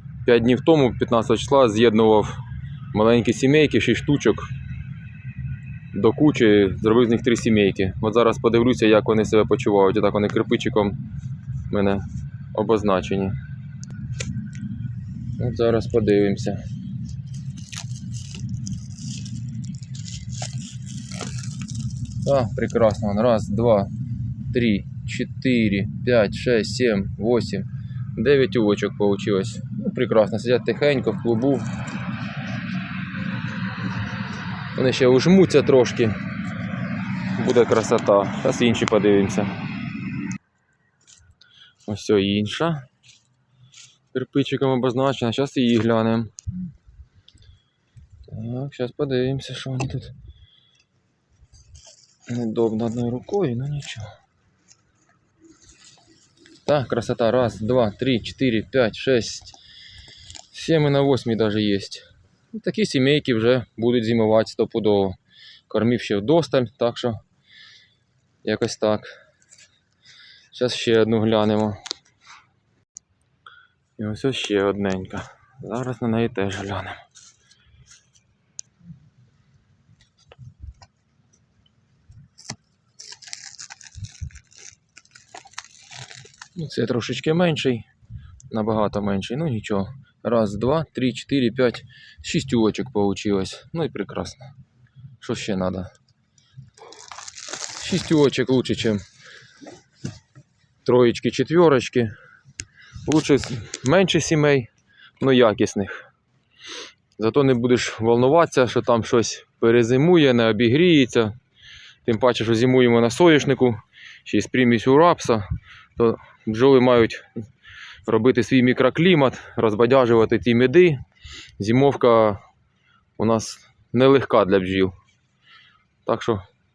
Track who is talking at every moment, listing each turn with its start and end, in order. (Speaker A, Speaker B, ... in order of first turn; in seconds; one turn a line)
Speaker A: 0.2-2.4
Speaker A: 2.9-4.5
Speaker A: 5.9-11.0
Speaker A: 11.7-13.4
Speaker A: 15.4-16.6
Speaker A: 22.2-23.9
Speaker A: 24.5-31.7
Speaker A: 34.8-36.2
Speaker A: 37.3-39.5
Speaker A: 41.9-42.9
Speaker A: 44.1-46.3
Speaker A: 48.3-50.1
Speaker A: 52.3-54.1
Speaker A: 56.6-59.5
Speaker A: 60.5-65.2
Speaker A: 65.7-67.2
Speaker A: 68.4-69.1
Speaker A: 70.5-71.8
Speaker A: 74.0-77.0
Speaker A: 86.5-87.8
Speaker A: 88.5-94.5
Speaker A: 95.2-95.9
Speaker A: 97.8-99.0
Speaker A: 100.8-102.1
Speaker A: 103.0-106.0
Speaker A: 107.2-111.3
Speaker A: 112.0-115.5
Speaker A: 116.0-117.2
Speaker A: 118.0-121.0
Speaker A: 121.6-122.4
Speaker A: 123.2-124.9
Speaker A: 126.1-126.4